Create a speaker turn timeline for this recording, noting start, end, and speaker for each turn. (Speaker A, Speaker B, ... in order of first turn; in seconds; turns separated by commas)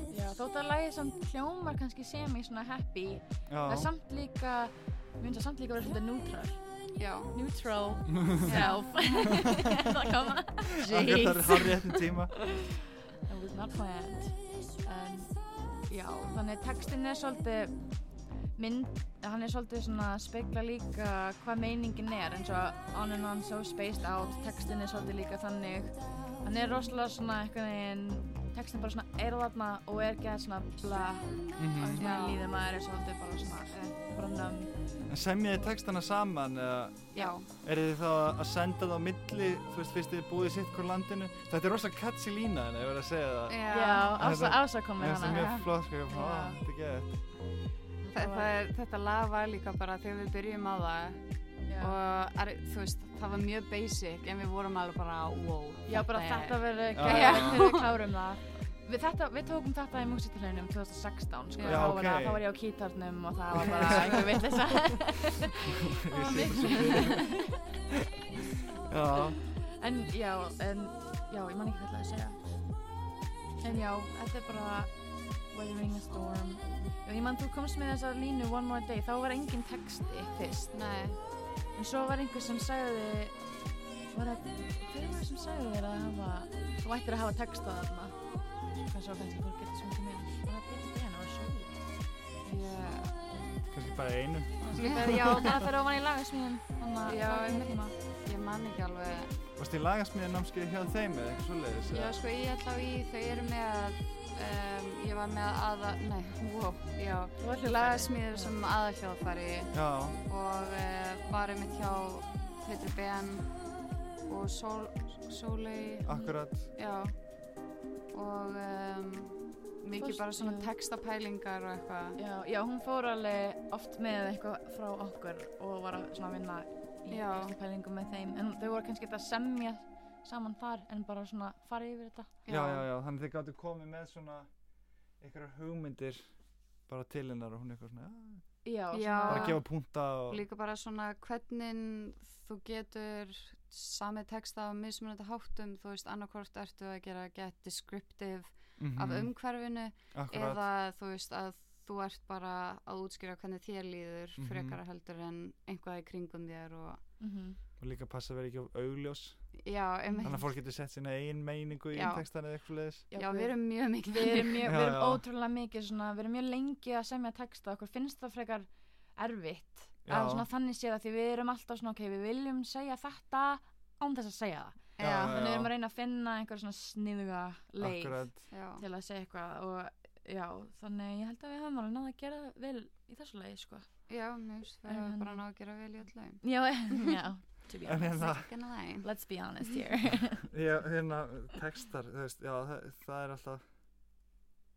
Speaker A: 0.1-6.6, Speaker B: 3.5-3.9, Speaker C: 7.0-7.3, Speaker A: 7.3-11.7, Speaker B: 8.2-8.5, Speaker C: 8.4-9.4, Speaker C: 10.8-11.8, Speaker B: 10.8-12.3, Speaker A: 12.3-12.7, Speaker A: 13.3-15.3, Speaker A: 15.9-17.8, Speaker A: 18.6-34.7, Speaker B: 31.6-32.0, Speaker C: 32.0-32.4, Speaker B: 35.1-43.6, Speaker C: 37.1-37.5, Speaker C: 43.5-44.2, Speaker A: 43.7-45.5, Speaker B: 44.1-47.2, Speaker C: 45.1-45.7, Speaker A: 46.1-46.6, Speaker A: 48.0-48.5, Speaker C: 48.1-51.2, Speaker A: 51.7-51.9, Speaker C: 51.8-58.0, Speaker A: 55.9-67.6, Speaker B: 56.9-57.6, Speaker C: 61.5-62.0, Speaker B: 61.6-62.4, Speaker B: 63.5-64.6, Speaker C: 63.6-64.0, Speaker B: 65.7-67.3, Speaker B: 68.2-69.4, Speaker A: 69.7-72.4, Speaker A: 73.6-74.9, Speaker A: 75.5-80.7, Speaker C: 80.7-81.2, Speaker A: 81.7-83.4, Speaker A: 84.1-88.2, Speaker A: 88.8-91.8, Speaker C: 92.4-93.1, Speaker B: 93.7-95.7, Speaker A: 94.6-97.9, Speaker C: 94.8-95.5, Speaker C: 97.0-99.3, Speaker B: 99.6-102.2, Speaker C: 101.9-113.5, Speaker A: 107.4-108.5, Speaker B: 109.7-110.2, Speaker C: 114.3-117.1, Speaker B: 116.1-116.7, Speaker C: 118.1-122.2, Speaker A: 120.0-120.7, Speaker A: 122.2-132.3, Speaker C: 127.1-127.5, Speaker C: 132.4-132.8, Speaker B: 132.5-134.5, Speaker B: 135.2-136.2, Speaker B: 136.9-138.4, Speaker A: 138.6-139.6, Speaker C: 138.9-139.6, Speaker B: 139.3-140.4, Speaker C: 140.3-157.0, Speaker B: 148.8-149.3, Speaker B: 150.1-150.6, Speaker B: 154.4-154.8, Speaker A: 157.2-157.6, Speaker B: 157.8-159.4, Speaker C: 159.6-160.4, Speaker A: 160.1-160.4, Speaker B: 160.2-163.0, Speaker C: 161.9-162.2, Speaker A: 163.1-183.9, Speaker C: 163.1-164.7, Speaker B: 164.6-165.2, Speaker B: 170.1-170.5, Speaker C: 175.0-175.4, Speaker B: 175.0-175.7, Speaker B: 177.8-178.4, Speaker C: 178.5-178.8, Speaker C: 184.1-187.2, Speaker A: 184.9-185.4, Speaker A: 186.4-188.4, Speaker B: 187.8-188.5, Speaker C: 188.1-189.1, Speaker A: 189.0-190.5, Speaker B: 190.4-193.6